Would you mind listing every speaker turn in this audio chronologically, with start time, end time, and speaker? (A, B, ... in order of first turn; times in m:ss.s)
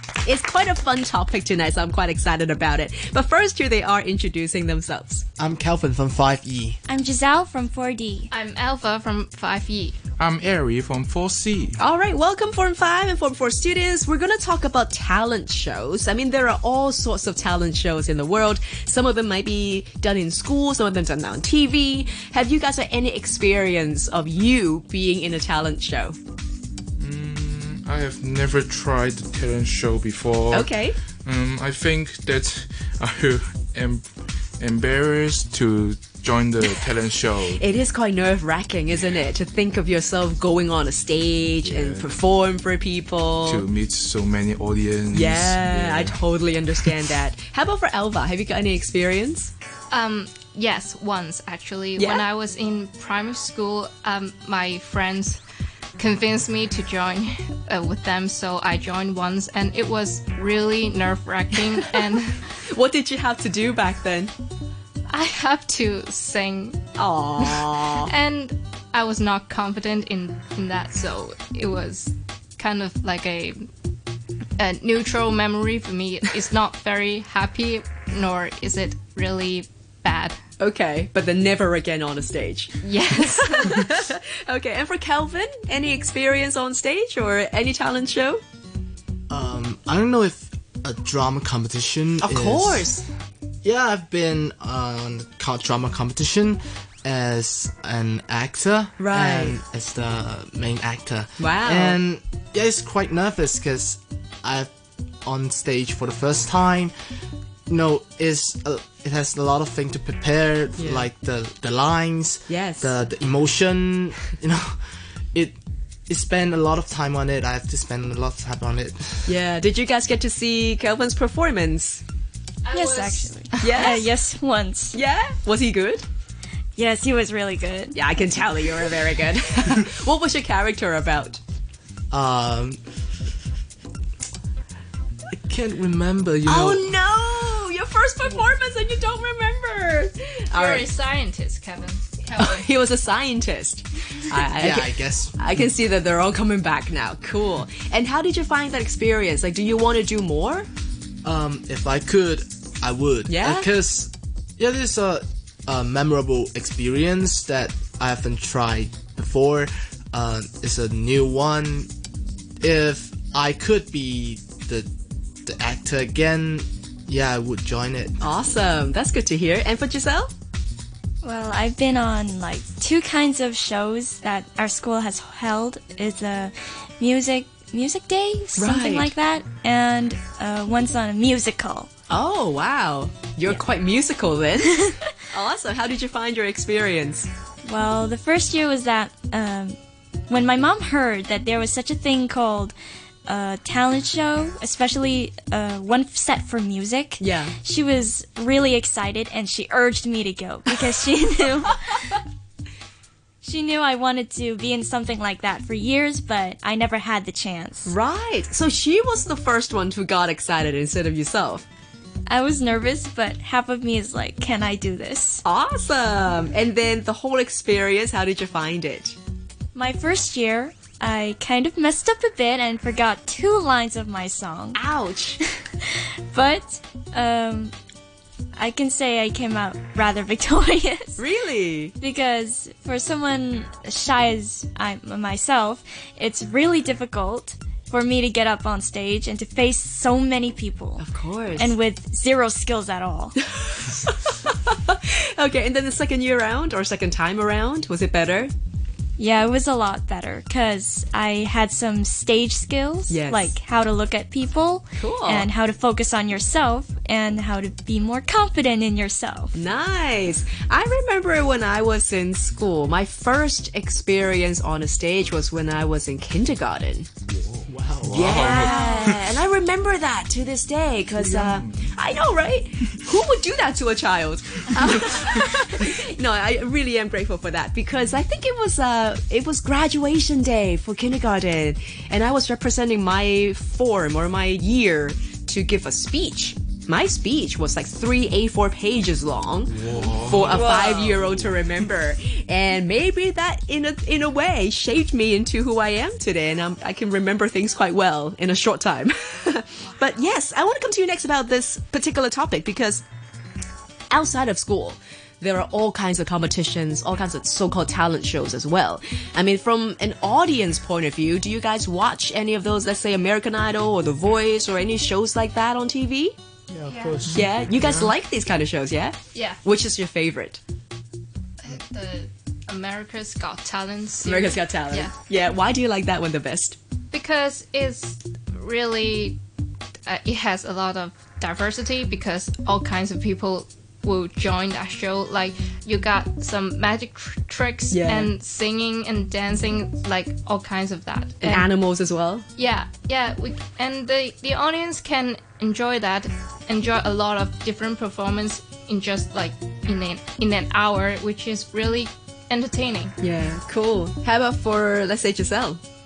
0:00.2-0:05.2 A
0:05.4-0:06.8 B
0:06.9-0:08.3 C
0:08.3-0:10.0 D
0:10.2-0:11.8 E
0:11.8-0:26.2 A
0:27.0-0:30.7 E
0:30.5-0:31.0 A
0:31.2-0:34.0 E
0:34.6-0:37.6 E
0:37.5-0:43.6 A
0:41.6-0:42.1 E
0:43.4-0:46.2 E
0:45.1-0:49.5 A
0:49.9-0:55.4 D
0:52.0-0:52.2 A
0:56.0-1:02.4 D
1:02.6-1:04.3 A
1:05.1-1:13.6 D
1:07.0-1:08.1 A
1:14.6-1:20.4 D
1:20.6-1:28.4 A
1:22.8-1:23.9 D
1:29.3-1:32.9 B
1:32.2-1:33.0 A
1:33.6-1:44.7 B
1:39.0-1:39.6 A
1:41.4-1:42.0 A
1:45.2-1:46.9 B
1:47.7-1:54.8 B
1:50.8-1:51.1 A
1:52.5-1:52.9 A
1:56.1-1:59.3 B
1:59.2-2:02.0 A
2:02.6-2:03.8 D
2:02.7-2:05.0 C
2:03.6-2:04.0 A
2:04.9-2:06.0 A
2:06.8-2:08.0 C
2:07.9-2:11.4 A
2:12.1-2:12.8 B
2:15.4-2:16.9 B
2:16.4-2:20.9 A
2:20.5-2:22.7 D
2:22.4-2:30.7 A
2:24.6-2:25.4 B
2:31.2-2:41.9 B
2:33.3-2:33.7 A
2:42.6-2:44.9 B
2:45.4-2:48.2 B
2:48.2-2:50.3 A
2:51.2-3:01.9 C
2:58.6-2:59.1 A
3:02.1-3:07.3 A
3:07.6-3:09.8 C
3:10.3-3:12.7 C
3:13.2-3:22.2 C
3:17.2-3:17.5 A
3:23.4-3:27.9 C
3:27.8-3:31.6 A
3:32.3-3:35.4 C
3:35.4-3:39.2 A
3:39.7-3:44.8 C
3:44.7-3:45.4 A
3:45.8-3:47.7 C
3:48.5-3:51.2 C
3:51.2-3:51.9 A
3:52.0-4:01.0 C
4:01.0-4:01.7 A
4:01.5-4:03.4 C
4:03.5-4:08.5 A
4:09.2-4:19.5 C
4:13.1-4:13.5 A
4:15.0-4:15.5 A
4:19.6-4:27.1 A
4:27.3-4:29.3 E
4:27.6-4:28.5 B
4:28.1-5:03.0 A
4:28.4-4:29.1 C
4:31.2-4:31.6 E
4:49.7-4:51.5 E
5:04.1-5:16.4 A
5:16.7-5:18.1 B
5:16.9-5:17.3 D
5:17.2-5:20.6 A
5:19.3-5:19.6 D
5:21.6-5:25.1 D
5:24.2-5:26.8 A
5:27.1-5:29.4 D
5:30.0-5:41.7 D
5:37.9-5:38.3 A
5:41.4-5:42.4 A
5:42.6-5:53.1 D
5:53.2-5:55.8 A